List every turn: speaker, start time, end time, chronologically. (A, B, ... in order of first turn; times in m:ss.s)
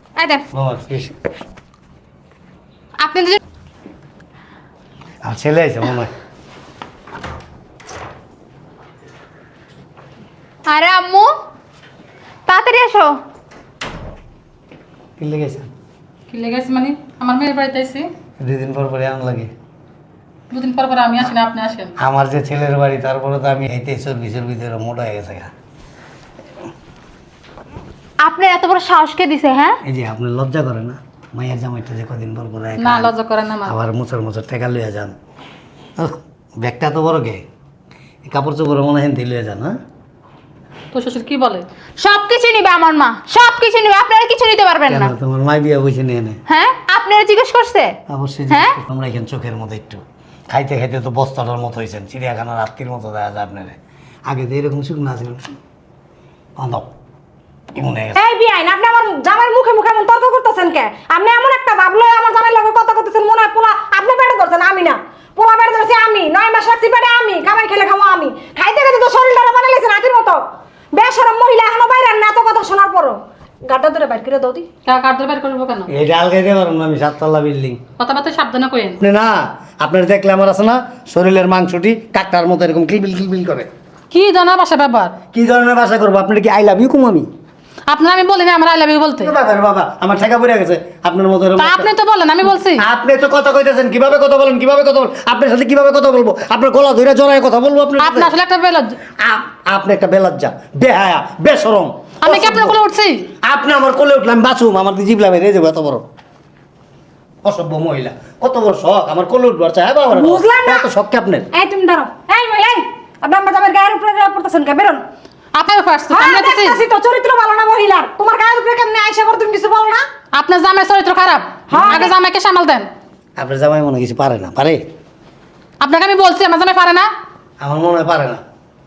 0:00.2-0:00.5 A
0:00.5-0:01.2 B
0:03.0-0:03.4 A
0:05.2-0:06.1 B
0:10.7-0:11.3 A
0:12.5-0:13.1 A
0:15.2-0:15.7 B
0:16.3-0:18.1 C
0:18.4-0:19.5 B
0:20.5-0:21.9 C
0:22.0-0:25.5 B
0:28.2-0:29.8 A
0:29.9-0:33.1 B
0:32.8-0:33.7 C
0:33.6-0:35.1 B
0:36.0-0:37.4 B
0:38.2-0:39.8 B
0:40.9-0:41.7 C
0:42.0-0:45.1 A
0:44.9-0:46.4 B
0:46.5-0:48.0 A
0:48.1-0:53.8 B
0:54.3-0:55.5 B
0:56.6-0:56.9 B
0:57.7-0:58.2 B
0:58.2-1:10.4 D
1:10.9-1:14.7 D
1:14.8-1:15.9 C
1:15.9-1:17.8 B
1:18.0-1:19.0 C
1:19.0-1:23.7 B
1:24.1-1:25.1 C
1:25.3-1:27.3 B
1:27.9-1:29.3 C
1:29.2-1:31.9 B
1:31.6-1:32.8 C
1:32.8-1:38.3 B
1:38.0-1:39.0 C
1:39.2-1:42.8 B
1:42.2-1:43.3 C
1:43.4-1:46.0 B
1:47.4-1:51.5 B
1:50.1-1:50.9 D
1:51.5-1:55.0 D
1:55.5-1:56.8 C
1:56.1-2:00.0 D
2:00.3-2:02.9 C
2:01.7-2:02.1 D
2:03.4-2:04.8 B
2:05.8-2:07.1 C
2:07.6-2:08.4 B